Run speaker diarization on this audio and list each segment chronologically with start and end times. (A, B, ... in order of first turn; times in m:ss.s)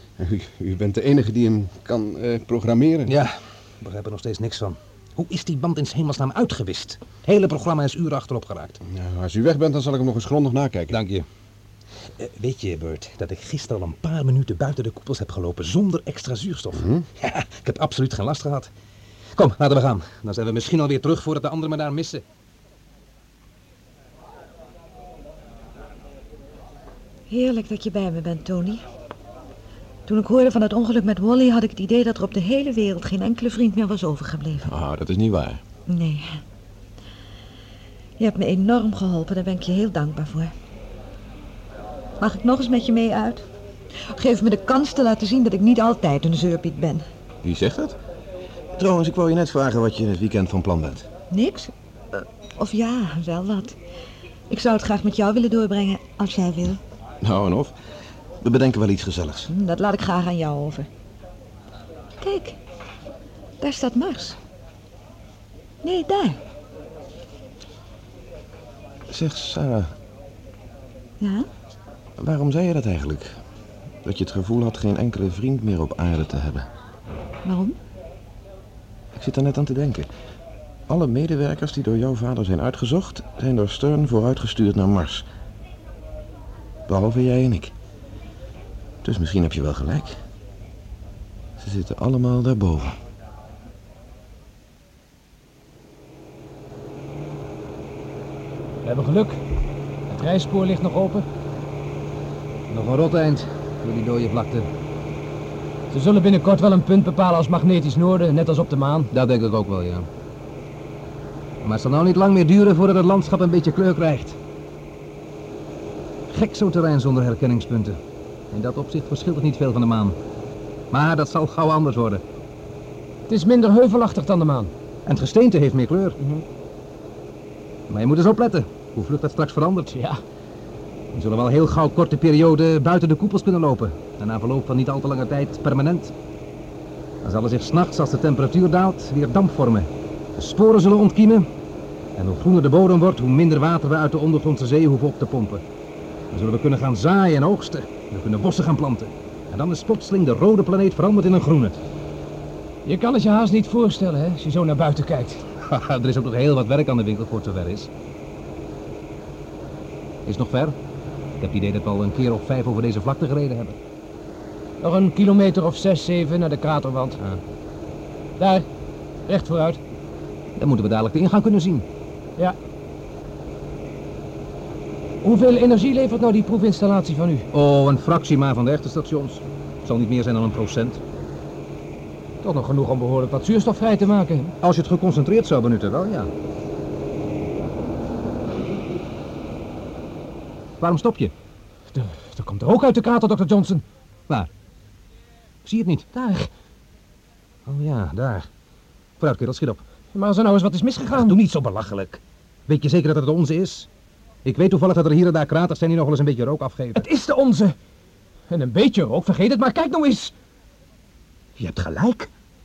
0:00.2-0:03.1 A
0:03.1-0:08.8 B
0:08.9-0:11.0 A
0:10.9-0:11.2 B
0:12.2-0:18.7 B
0:16.8-0:17.0 A
0:19.4-0:22.2 B
0:27.3-0:28.8 C
0:30.1-0:34.7 C
0:34.6-0:35.6 D
0:35.9-0:36.4 C
0:38.2-0:40.5 C
0:42.2-0:43.5 C
0:44.1-0:47.0 C
0:47.4-0:48.0 D
0:48.8-0:51.1 D
0:51.3-0:51.7 C
0:52.6-0:53.8 C
0:54.5-0:56.8 C
0:57.2-0:57.8 D
0:58.4-0:59.5 D
0:59.5-1:00.9 C
1:02.2-1:02.6 C
1:03.6-1:04.4 C
1:05.8-1:06.4 C
1:09.1-1:09.9 D
1:11.2-1:11.5 C
1:12.2-1:13.4 D
1:14.0-1:16.7 D
1:17.4-1:17.8 C
1:19.1-1:20.1 D
1:20.9-1:25.2 D
1:26.9-1:27.7 D
1:29.0-1:30.2 D
1:31.6-1:33.0 D
1:38.8-1:39.4 E
1:40.1-1:41.3 E
1:42.7-1:44.7 B
1:45.9-1:49.1 E
1:49.1-1:50.1 B
1:51.6-1:54.4 B
1:56.3-1:58.0 B
1:58.5-2:00.2 B
2:00.9-2:02.2 B
2:03.3-2:04.7 E
2:05.1-2:06.2 B
2:07.9-2:09.9 B
2:09.9-2:10.2 E
2:11.1-2:16.1 B
2:17.2-2:21.5 B
2:22.2-2:25.6 B
2:26.3-2:31.8 B
2:32.8-2:35.4 E
2:35.6-2:37.9 B
2:40.3-2:40.8 B
2:41.4-2:43.8 B
2:44.8-2:47.2 E
2:48.4-2:48.7 E
2:49.3-2:49.8 E
2:50.6-2:51.8 B
2:55.2-2:57.5 E
2:57.5-3:01.0 B
3:02.4-3:04.6 E
3:04.6-3:06.3 B
3:10.8-3:11.3 B
3:11.9-3:13.8 E
3:15.6-3:16.1 B
3:16.1-3:16.5 E
3:17.7-3:18.5 B
3:19.2-3:19.8 B
3:20.1-3:21.4 E
3:21.1-3:23.9 B
3:24.4-3:27.0 B
3:27.0-3:27.8 E
3:28.5-3:30.3 E
3:31.6-3:32.3 B